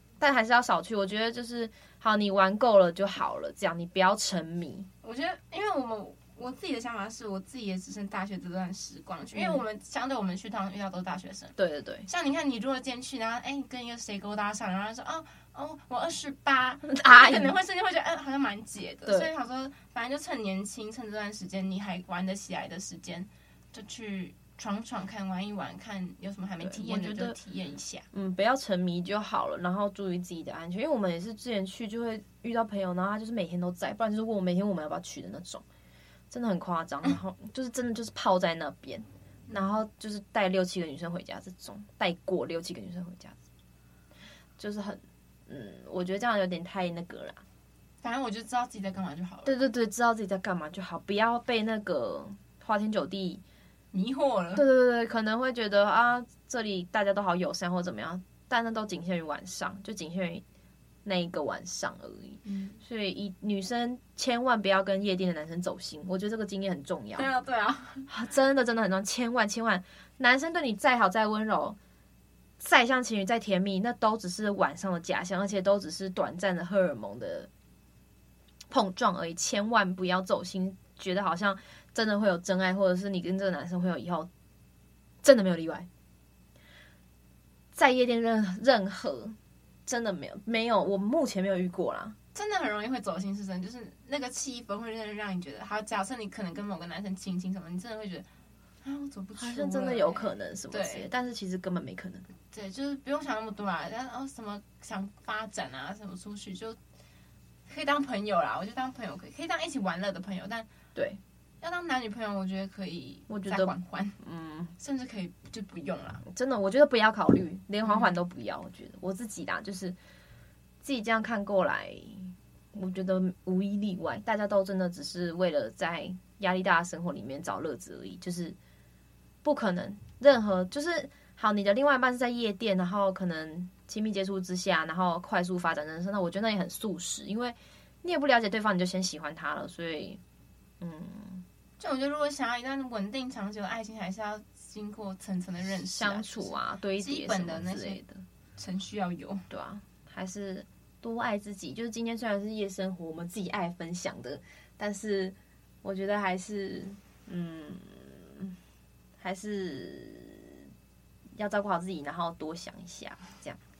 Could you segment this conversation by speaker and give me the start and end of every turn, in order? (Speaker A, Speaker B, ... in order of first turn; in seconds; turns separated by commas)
Speaker A: 0.2-4.9, Speaker B: 5.0-11.6, Speaker A: 9.3-9.6, Speaker A: 11.6-12.1, Speaker B: 12.1-28.1, Speaker A: 16.9-17.6, Speaker A: 19.1-19.3, Speaker A: 26.6-27.4, Speaker A: 28.1-35.6, Speaker A: 36.3-43.4, Speaker B: 39.5-39.7, Speaker A: 44.6-47.4, Speaker B: 48.0-49.6, Speaker A: 49.4-53.4, Speaker B: 53.9-54.6, Speaker A: 54.5-60.4, Speaker A: 61.0-67.3, Speaker B: 62.4-62.8, Speaker B: 67.1-68.1, Speaker A: 68.1-71.8, Speaker A: 72.6-77.5, Speaker A: 78.7-84.3, Speaker A: 85.2-85.9, Speaker A: 87.7-92.2, Speaker B: 92.3-98.3, Speaker B: 98.8-101.1, Speaker A: 99.4-102.3, Speaker B: 102.5-106.8, Speaker B: 107.7-110.7, Speaker A: 111.0-111.2, Speaker B: 111.6-114.2, Speaker A: 113.3-114.7, Speaker B: 114.8-116.2, Speaker A: 116.2-120.0, Speaker B: 117.8-118.1, Speaker A: 120.8-128.6, Speaker A: 129.4-140.2, Speaker A: 140.8-141.4, Speaker B: 141.8-148.0, Speaker A: 145.9-148.2, Speaker B: 148.6-149.5, Speaker A: 149.5-158.6, Speaker A: 159.2-160.7, Speaker A: 161.3-163.6